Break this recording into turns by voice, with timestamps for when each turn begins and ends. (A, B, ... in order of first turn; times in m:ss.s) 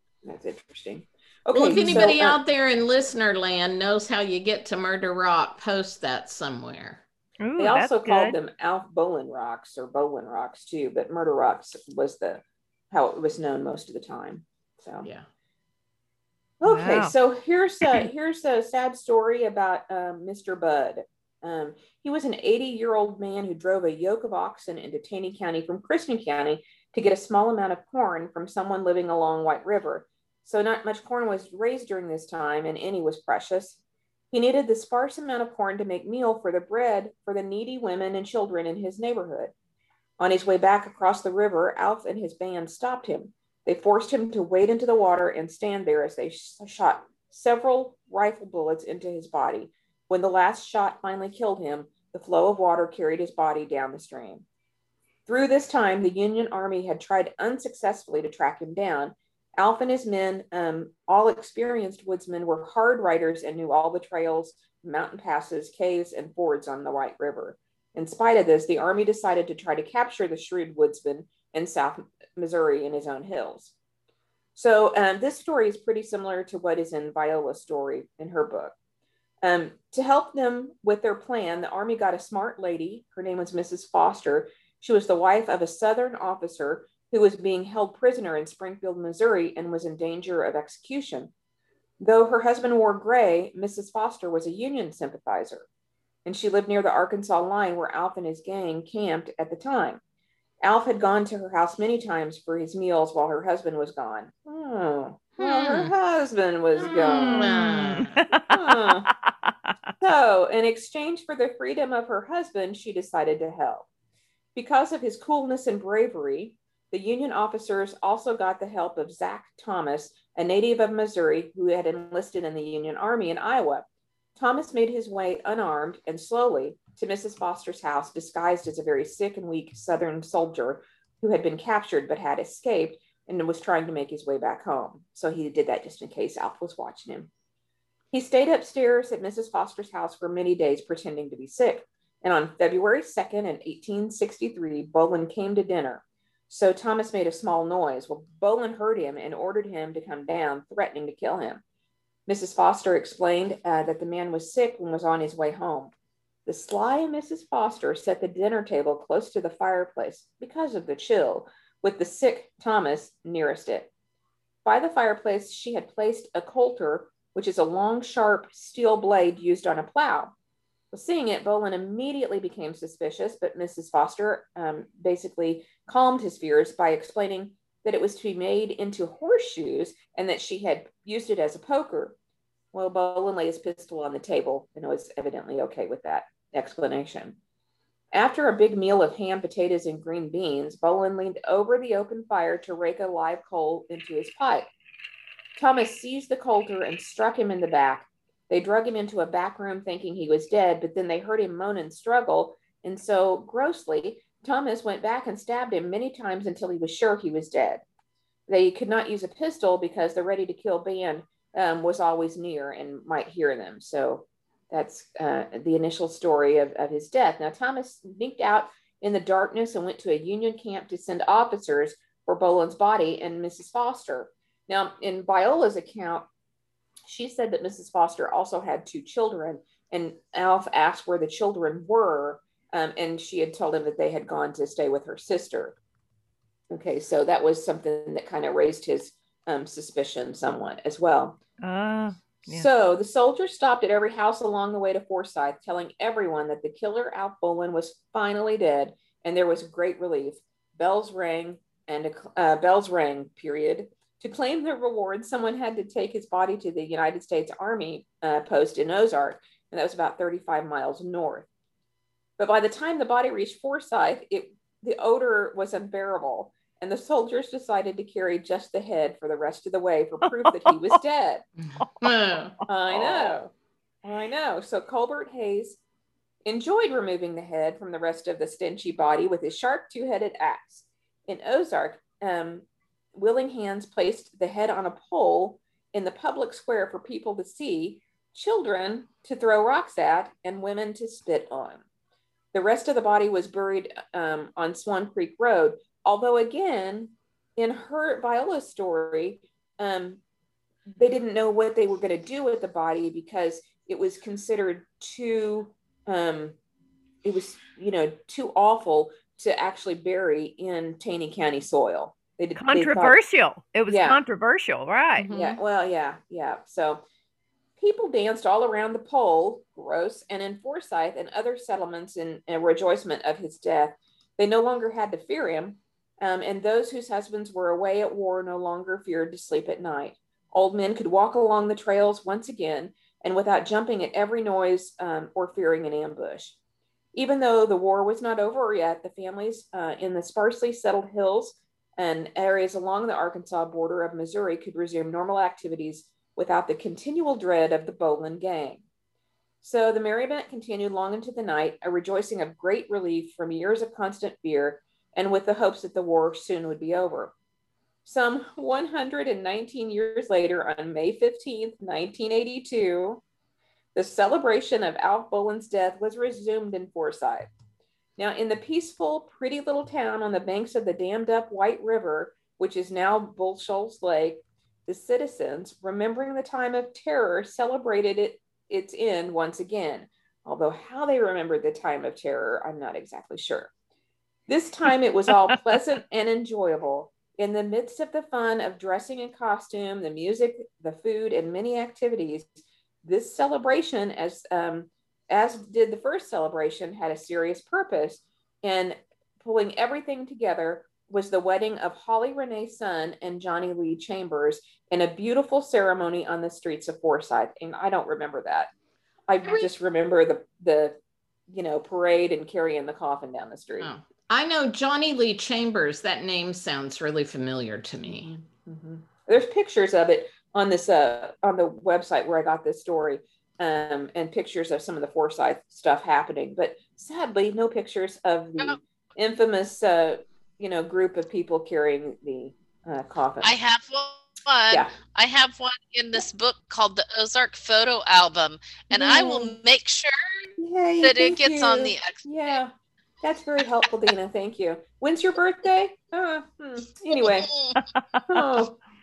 0:00.2-0:02.4 A
0:01.5-0:07.0 B
0:01.7-0:02.0 C
0:07.4-0:08.4 C
0:07.6-0:15.1 A
0:16.6-0:33.8 A
0:16.6-0:17.1 C
0:17.8-0:18.1 C
0:34.3-0:39.5 A
0:40.2-0:54.4 A
0:55.2-1:13.7 A
1:14.6-1:18.7 A
1:19.4-1:31.3 A
1:32.0-1:35.6 A
1:36.2-1:40.0 A
1:40.6-1:47.5 A
1:45.4-1:45.9 B
1:46.8-1:48.2 B
1:46.8-1:49.7 C
1:48.5-1:49.1 A
1:50.0-1:53.9 A
1:54.5-2:17.3 A
2:18.1-2:31.6 A
2:32.3-2:35.9 A
2:36.4-2:43.9 A
2:44.6-2:50.3 A
2:50.9-3:02.2 A
3:02.7-3:07.4 A
3:08.1-3:14.7 A
3:15.5-3:27.8 A
3:28.5-3:46.3 A
3:47.0-3:55.8 A
3:56.7-4:01.4 A
4:01.6-4:02.7 C
4:02.4-4:21.5 A
4:22.4-4:31.4 A
4:30.2-4:31.0 C
4:31.6-4:32.6 B
4:31.8-4:32.1 C
4:32.7-4:33.5 A
4:32.9-4:33.3 C
4:34.0-4:35.8 A
4:36.4-4:51.8 A
4:52.5-5:00.2 A
5:00.9-5:06.6 A
5:07.2-5:13.2 A
5:12.5-5:15.3 C
5:13.9-5:14.2 A
5:15.2-5:15.6 B
5:15.3-5:17.0 A
5:17.8-5:36.5 A
5:37.1-5:48.8 A
5:49.6-5:57.3 A
5:58.0-6:03.2 A
6:03.9-6:07.5 A
6:08.2-6:23.7 A
6:24.5-6:32.5 A
6:33.0-6:48.7 A
6:49.3-6:51.0 A
6:49.4-6:49.7 B
6:51.5-6:53.9 A
6:53.8-6:58.3 B
6:58.0-7:13.5 A
7:13.4-7:20.5 D
7:18.9-7:19.6 A
7:20.6-7:27.5 A
7:21.0-7:22.6 D
7:27.2-7:27.8 D
7:27.8-7:28.6 C
7:28.3-7:28.8 A